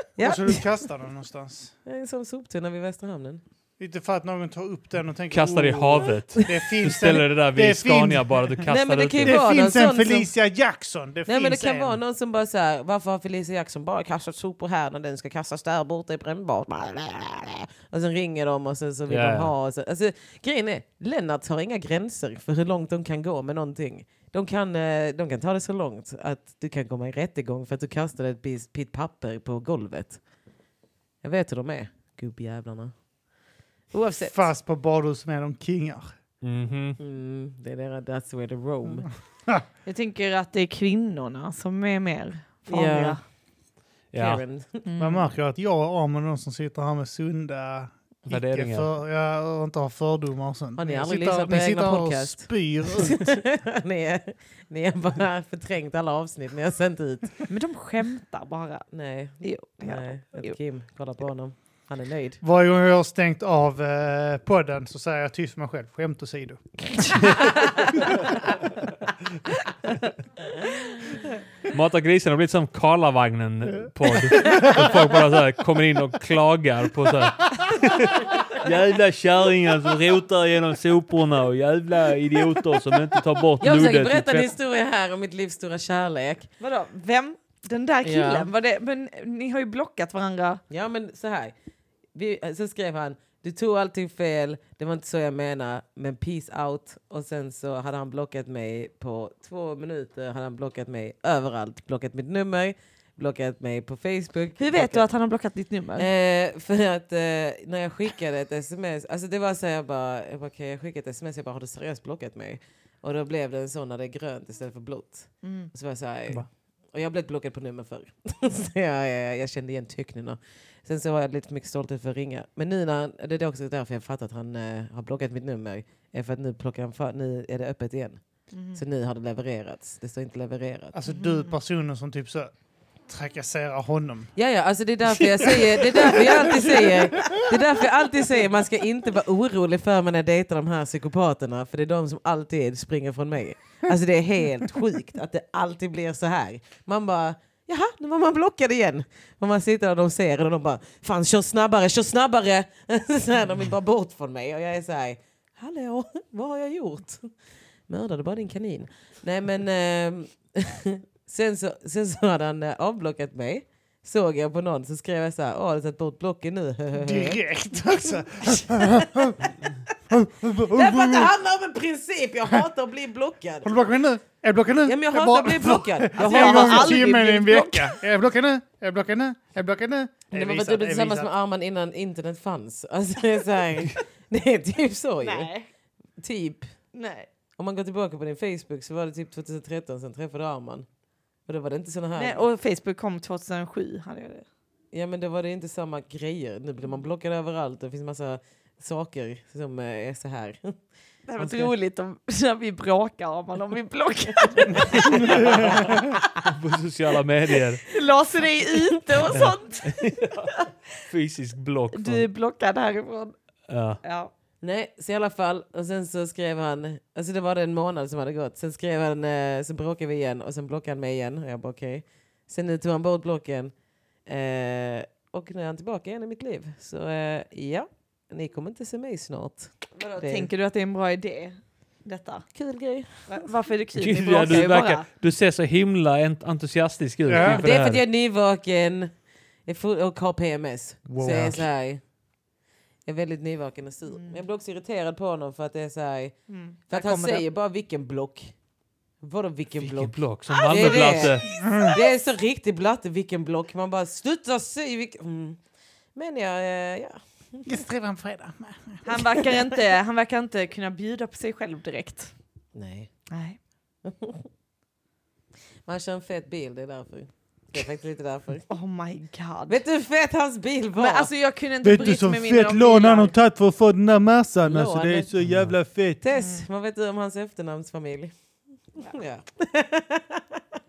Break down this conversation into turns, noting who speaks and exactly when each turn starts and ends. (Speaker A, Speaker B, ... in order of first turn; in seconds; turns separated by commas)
Speaker A: 0.1-0.6, Speaker B: 0.2-1.7, Speaker A: 1.8-3.4, Speaker B: 3.8-8.4, Speaker C: 5.3-9.4, Speaker A: 8.7-10.3, Speaker B: 9.2-12.0, Speaker A: 11.2-30.2, Speaker C: 19.1-19.5, Speaker A: 31.2-32.9, Speaker A: 33.9-34.4, Speaker B: 34.2-36.1, Speaker C: 36.4-37.0, Speaker A: 37.0-39.1, Speaker D: 39.9-43.2, Speaker A: 42.7-43.2, Speaker C: 44.1-44.4, Speaker A: 44.1-44.9, Speaker D: 44.9-45.2, Speaker B: 45.0-53.4, Speaker C: 48.3-48.9, Speaker A: 50.8-57.4, Speaker D: 57.5-58.9, Speaker A: 58.9-62.4, Speaker D: 59.4-60.5, Speaker B: 62.4-67.3, Speaker C: 71.7-84.5, Speaker B: 74.3-75.0, Speaker A: 83.6-86.5, Speaker D: 86.6-90.6, Speaker A: 88.0-88.5, Speaker A: 90.7-91.5, Speaker A: 92.1-105.0, Speaker D: 104.6-106.1, Speaker A: 106.0-128.2, Speaker D: 115.4-115.7, Speaker D: 128.5-128.8, Speaker A: 128.7-130.9, Speaker B: 130.9-132.5, Speaker D: 131.1-131.5, Speaker B: 133.1-134.3, Speaker A: 134.3-157.3, Speaker B: 135.4-137.3, Speaker A: 157.9-169.5, Speaker B: 166.9-169.4, Speaker B: 170.1-171.3, Speaker A: 170.7-173.7, Speaker B: 173.6-181.3, Speaker A: 174.8-177.1, Speaker D: 176.2-178.0, Speaker A: 180.3-185.5, Speaker D: 185.2-185.7, Speaker A: 186.2-186.7, Speaker D: 186.9-187.3, Speaker A: 187.6-190.9, Speaker A: 191.4-192.4, Speaker D: 192.2-194.4, Speaker A: 194.9-200.7, Speaker D: 201.3-206.2, Speaker A: 204.5-206.0, Speaker B: 205.4-205.9, Speaker C: 205.7-207.8, Speaker D: 207.9-210.7, Speaker A: 208.9-209.3, Speaker C: 209.3-210.5, Speaker C: 211.1-212.2, Speaker D: 211.9-213.3, Speaker C: 213.7-214.0, Speaker D: 214.0-214.3, Speaker A: 214.6-223.7, Speaker A: 224.2-230.5, Speaker D: 230.0-232.4, Speaker A: 232.5-233.5, Speaker D: 233.3-235.1, Speaker C: 233.9-238.0, Speaker B: 237.2-237.7, Speaker A: 237.4-239.1, Speaker A: 239.7-242.0, Speaker B: 241.1-241.6, Speaker C: 241.2-241.5, Speaker A: 243.1-246.3, Speaker D: 246.5-247.4, Speaker A: 246.9-248.5, Speaker A: 249.2-255.6, Speaker C: 249.9-251.5, Speaker B: 251.6-251.9, Speaker A: 256.1-257.7, Speaker B: 257.6-259.0, Speaker D: 259.0-262.3, Speaker A: 262.7-263.1, Speaker D: 263.3-263.6, Speaker A: 264.0-264.4, Speaker A: 265.9-268.6, Speaker D: 268.7-269.8, Speaker A: 269.7-271.3, Speaker D: 270.9-273.3, Speaker B: 271.8-276.2, Speaker A: 274.6-275.3, Speaker C: 275.4-275.7, Speaker A: 276.2-278.3, Speaker D: 276.3-276.6, Speaker A: 279.0-280.6